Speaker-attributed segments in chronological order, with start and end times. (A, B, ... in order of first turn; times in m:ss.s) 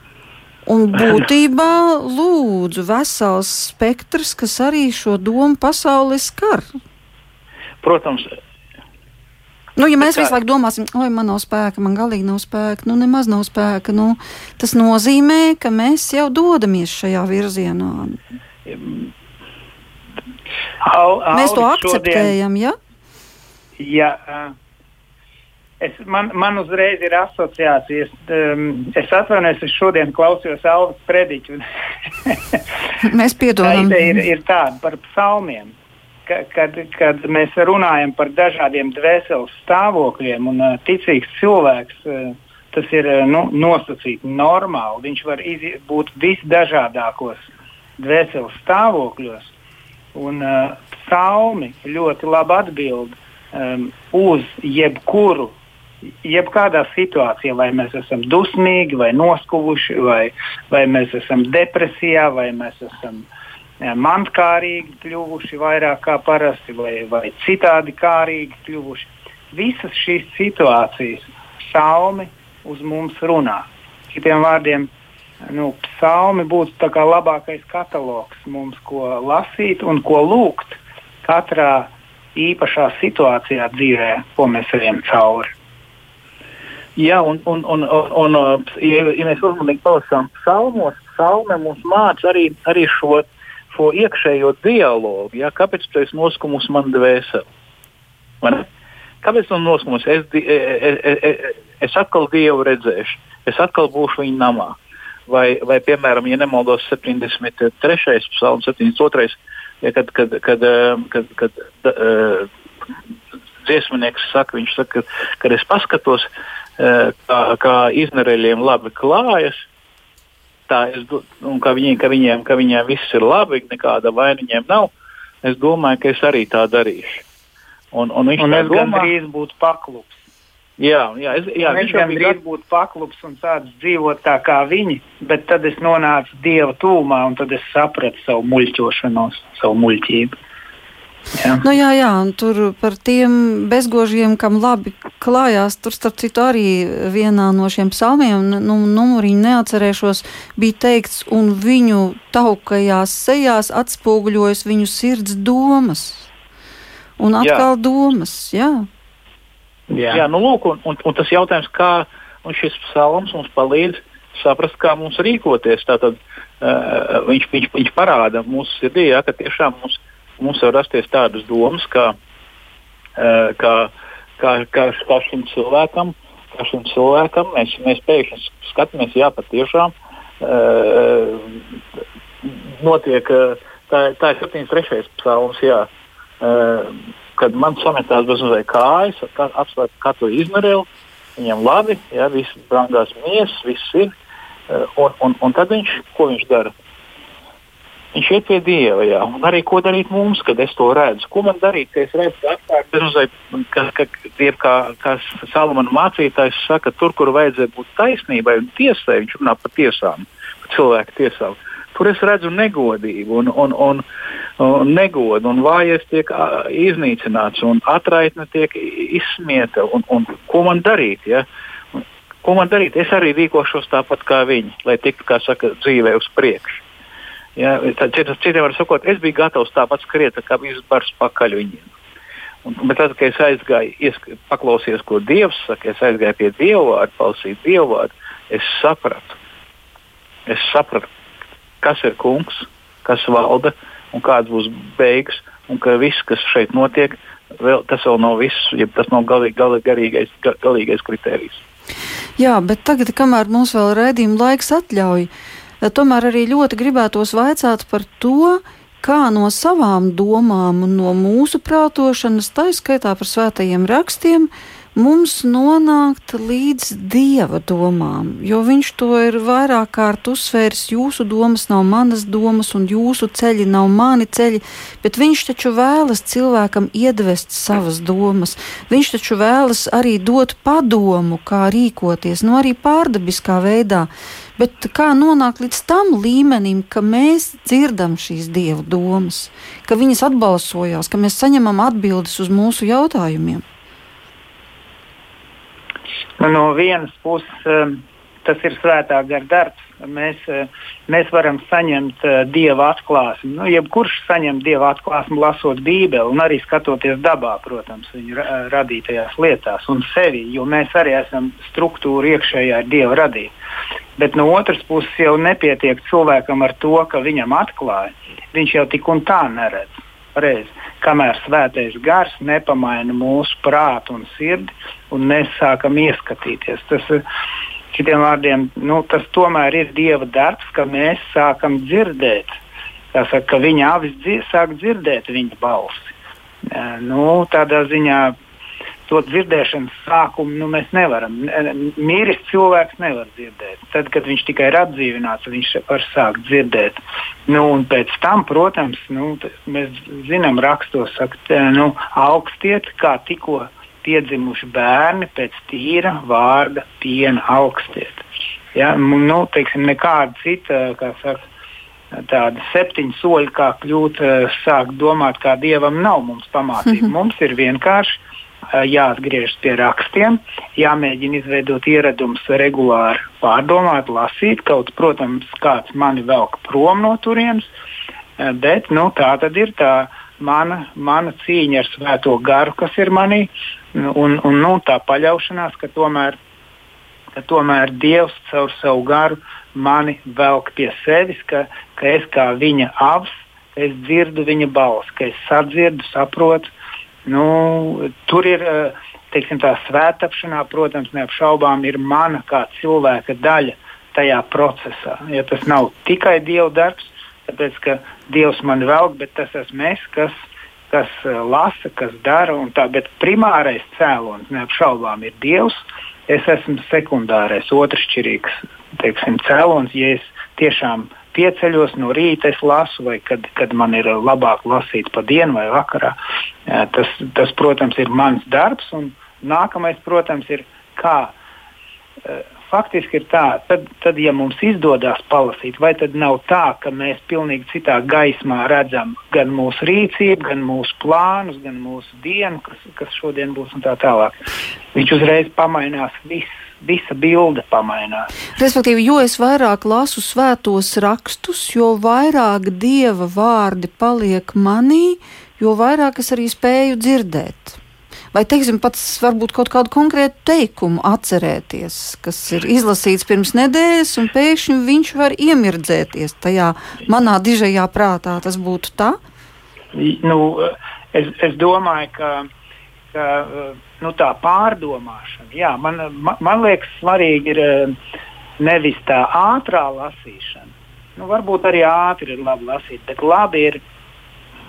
0:00.7-0:06.7 A
0:07.8-0:08.4 B
0:09.8-0:18.2 A
0:10.0-0:10.4 B
0:18.7-0:19.0 B
0:20.8-0:22.4 C
0:21.3-0:22.8 A
0:23.8-0:24.6 C
0:25.8-0:31.6 C
0:32.2-0:32.6 C
0:33.0-0:34.2 A
0:33.6-0:35.7 C
0:36.3-0:49.5 C
0:50.2-0:55.6 C
0:56.2-1:03.3 C
1:03.8-1:14.9 C
1:15.5-1:25.5 C
1:27.0-1:37.5 B
1:38.4-1:38.7 B
1:39.2-1:44.8 B
1:45.3-1:52.5 B
1:53.6-1:56.3 B
1:56.8-1:59.6 B
2:00.7-2:04.9 B
2:05.4-2:07.2 B
2:07.9-2:09.1 B
2:08.4-2:10.2 C
2:10.8-2:12.4 B
2:11.6-2:20.3 C
2:21.4-2:21.6 C
2:21.6-2:36.3 A
2:37.2-2:38.9 A
2:37.4-2:37.7 B
2:39.9-2:40.2 C
2:40.1-2:52.2 B
2:53.2-3:01.6 B
3:02.4-3:05.9 B
3:06.4-3:14.1 B
3:14.7-3:16.7 B
3:18.1-3:34.0 B
3:34.6-3:46.8 B
3:47.6-3:51.9 B
3:52.6-3:59.4 B
4:00.5-4:01.1 B
4:01.8-4:11.6 B
4:12.4-4:15.3 A
4:15.8-4:53.6 A
4:56.4-5:13.5 C
5:14.2-5:27.2 C
5:27.9-5:32.6 C
5:33.1-5:36.1 C
5:36.7-5:38.4 C
5:39.1-6:01.4 C
6:02.1-6:08.2 C
6:08.7-6:17.7 C
6:18.4-6:26.4 C
6:27.4-6:36.7 C
6:37.3-7:06.2 C
7:06.7-7:11.4 C
7:12.2-7:24.4 C
7:24.9-7:28.3 C
7:28.6-7:37.8 A
7:38.3-7:49.2 A
7:49.9-7:52.5 C
7:53.1-7:58.0 C
7:58.6-8:03.8 C